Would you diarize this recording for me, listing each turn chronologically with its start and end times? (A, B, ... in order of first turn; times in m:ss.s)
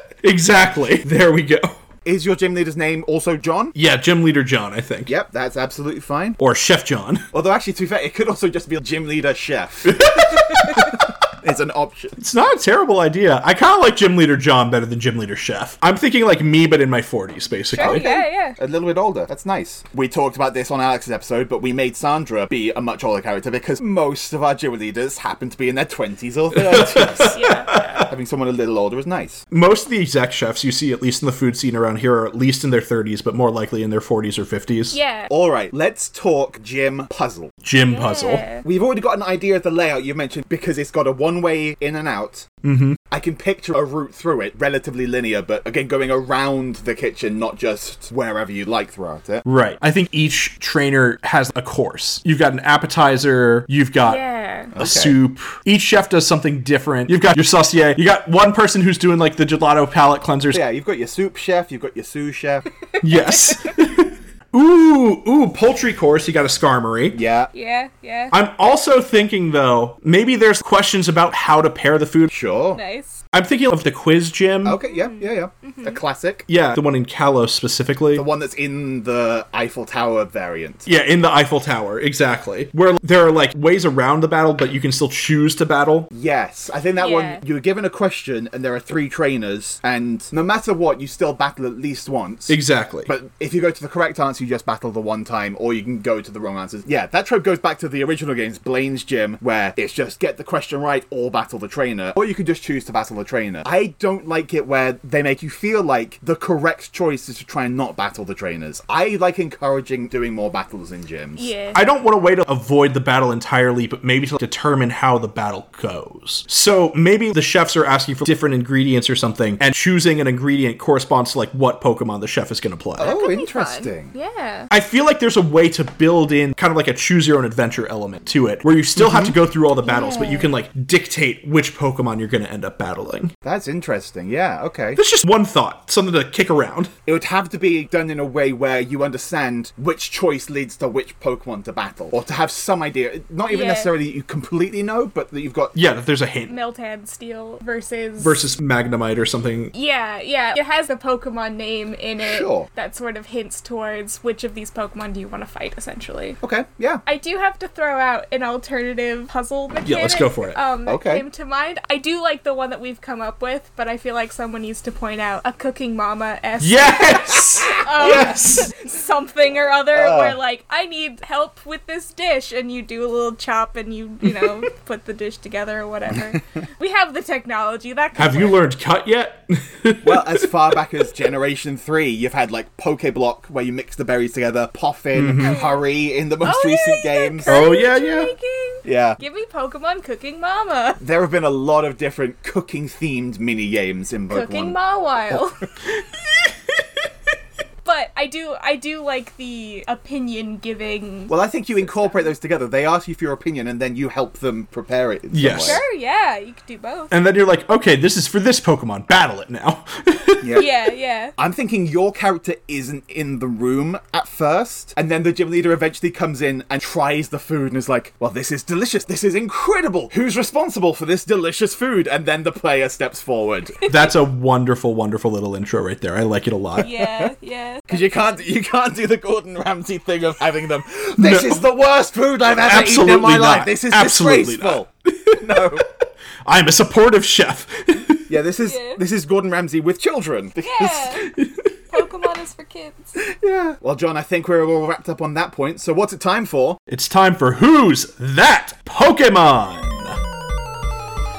0:00.2-0:01.8 A
0:02.0-0:03.7 B
0:03.7-0:05.1 A
0:05.1-0:06.4 B
0:06.4-0:07.3 A
0:07.3-0:12.2 B
0:09.8-0:10.9 A
0:12.2-0:18.1 A
0:17.7-0:18.6 C
0:17.8-0:27.4 B
0:26.5-0:28.1 A
0:27.3-0:28.0 C
0:28.1-0:29.4 B
0:29.5-0:35.0 A
0:34.9-0:35.3 C
0:35.3-0:37.5 B
0:37.6-0:38.4 A
0:37.9-0:38.6 C
0:38.6-0:42.5 B
0:42.6-0:43.0 A
0:43.1-0:49.4 B
0:49.4-0:54.2 A
0:54.0-0:54.7 C
0:54.7-0:55.2 B
0:54.8-1:00.6 A
1:00.5-1:02.7 B
1:02.9-1:03.7 C
1:03.0-1:07.2 A
1:07.1-1:07.5 B
1:07.5-1:08.3 C
1:08.3-1:12.3 A
1:12.3-1:12.8 B
1:12.7-1:13.2 C
1:13.3-1:14.8 A
1:14.6-1:16.4 B
1:14.8-1:16.0 C
1:16.5-1:18.2 A
1:18.1-1:20.9 B
1:20.8-1:26.1 A
1:26.1-1:51.5 B
1:27.0-1:27.4 C
1:32.5-1:33.1 A
1:51.4-1:51.8 C
1:51.7-2:03.1 A
2:03.0-2:04.1 B
2:03.0-2:04.7 C
2:04.7-2:13.3 A
2:09.0-2:09.4 B
2:09.8-2:10.5 C
2:13.4-2:15.0 B
2:15.0-2:16.9 A
2:17.0-2:25.8 B
2:23.5-2:23.9 C
2:25.7-2:26.5 A
2:26.5-2:28.4 C
2:28.2-2:29.7 A
2:29.7-2:36.4 C
2:32.2-2:32.7 B
2:36.4-2:37.0 B
2:37.0-2:58.6 C
2:39.8-2:40.6 A
2:40.8-2:41.2 B
2:46.6-2:48.7 A
2:49.9-2:50.4 B
2:58.2-3:00.5 A
3:00.0-3:07.6 B
3:05.1-3:05.6 A
3:05.4-3:05.9 C
3:06.4-3:11.0 C
3:07.5-3:08.3 A
3:08.8-3:09.2 B
3:11.0-3:14.8 B
3:14.3-3:15.6 C
3:17.8-3:22.3 C
3:21.3-3:25.8 B
3:25.3-3:25.8 A
3:25.6-3:27.1 C
3:27.1-3:30.4 A
3:30.4-3:30.7 B
3:30.6-3:31.3 C
3:31.4-3:43.8 B
3:43.8-3:44.1 C
3:43.8-3:46.9 A
3:46.8-3:48.4 C
3:47.9-3:55.8 B
3:51.2-3:51.6 A
3:52.6-3:55.7 A
3:56.4-3:58.3 A
3:58.3-4:01.1 B
3:58.6-3:59.0 C
4:00.6-4:01.3 C
4:01.2-4:02.0 A
4:01.9-4:03.2 C
4:03.2-4:06.8 B
4:06.9-4:10.2 A